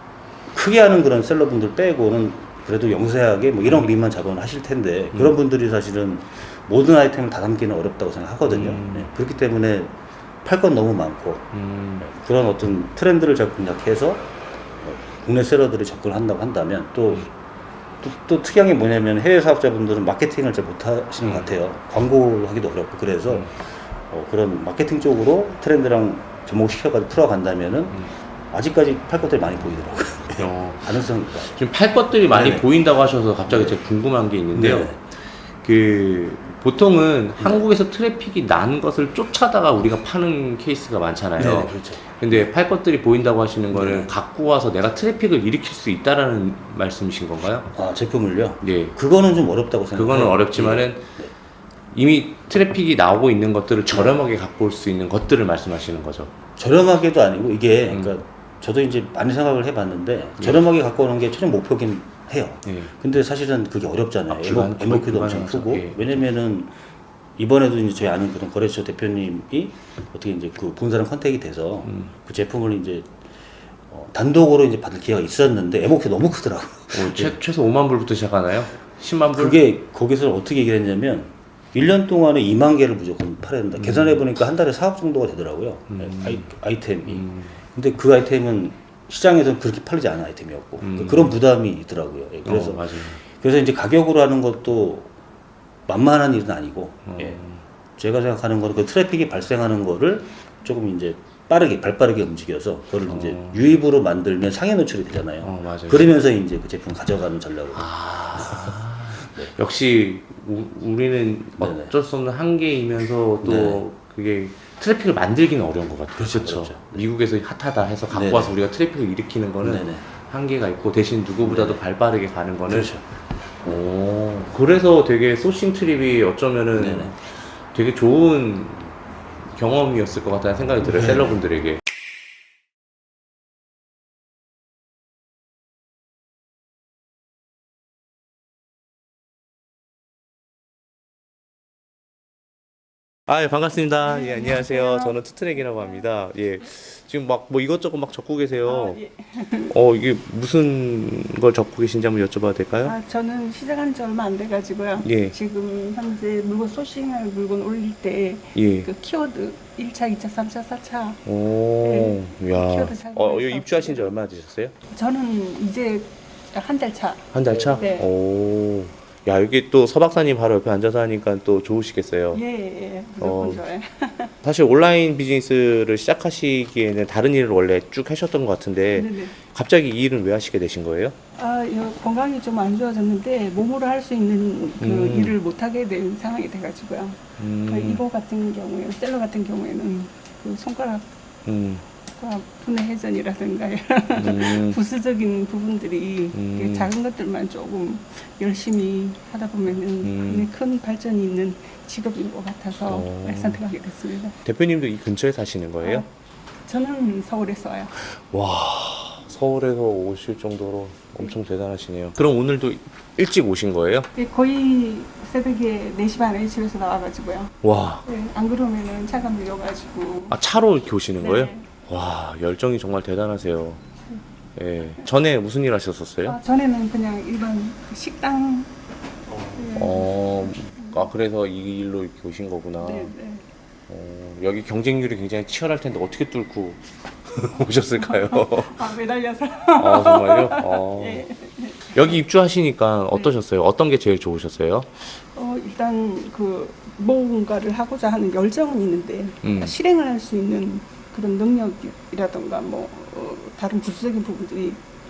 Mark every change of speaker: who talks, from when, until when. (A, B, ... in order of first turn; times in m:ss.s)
0:00.5-0:17.3 A
0:08.4-0:09.1 B
0:11.5-0:12.1 B
0:18.0-0:28.0 A
0:21.2-0:21.5 B
0:28.5-0:31.6 A
0:30.4-0:47.7 B
0:32.3-0:32.7 A
0:33.5-0:33.8 A
0:34.5-0:35.0 A
0:37.4-0:37.7 A
0:41.4-0:42.5 A
0:43.7-0:44.1 A
0:47.7-0:51.3 A
0:48.6-0:48.9 B
0:49.9-0:51.0 B
0:51.9-0:56.3 B
0:53.9-0:54.2 A
0:56.6-1:06.7 A
0:57.9-0:58.1 B
1:02.6-1:02.9 B
1:04.3-1:06.1 B
1:07.4-1:13.1 A
1:11.8-1:12.1 B
1:13.9-1:17.4 A
1:16.9-1:19.6 B
1:19.3-1:35.1 A
1:23.8-1:24.2 B
1:25.9-1:26.5 B
1:27.1-1:27.6 B
1:30.8-1:31.3 B
1:32.4-1:33.2 B
1:35.9-1:37.4 A
1:37.0-1:37.6 B
1:38.0-1:49.5 A
1:43.1-1:43.6 B
1:45.4-1:46.1 B
1:47.7-2:02.9 B
1:51.6-1:51.9 A
1:53.4-1:53.8 A
1:56.2-1:57.0 A
1:58.1-1:58.5 A
1:59.6-2:00.0 A
2:01.4-2:01.8 A
2:02.7-2:03.0 A
2:03.6-2:08.9 B
2:06.8-2:07.1 A
2:09.5-2:11.8 B
2:10.8-2:11.4 A
2:23.3-2:29.0 B
2:24.0-2:26.0 C
2:28.6-2:29.7 C
2:29.7-2:32.9 B
2:32.8-2:41.2 C
2:35.0-2:35.3 B
2:38.5-2:38.9 B
2:41.2-2:44.7 B
2:41.8-2:44.1 C
2:44.9-2:48.1 C
2:47.3-2:52.4 B
2:52.3-2:54.3 C
2:53.2-2:53.6 B
2:54.4-3:01.2 B
2:58.9-2:59.3 C
3:01.4-3:11.0 C
3:04.8-3:05.4 B
3:07.4-3:08.0 B
3:11.4-3:11.8 B
3:12.2-3:24.4 C
3:14.2-3:14.8 B
3:16.3-3:16.9 B
3:20.0-3:20.5 B
3:22.8-3:23.6 B
3:24.4-3:26.0 B
3:25.8-3:26.0 C
3:26.7-3:27.9 C
3:28.0-3:34.1 B
3:34.1-3:40.4 C
3:37.6-3:38.0 B
3:40.3-3:43.8 B
3:41.2-3:41.6 C
3:44.6-3:46.4 B
3:46.2-3:48.7 C
3:49.3-3:51.1 C
3:49.7-3:53.1 B
3:52.8-3:53.4 C
3:53.9-3:58.9 B
3:57.5-4:02.0 C
3:59.8-4:01.2 B
4:01.9-4:04.9 B
4:05.1-4:14.8 C
4:09.4-4:09.7 B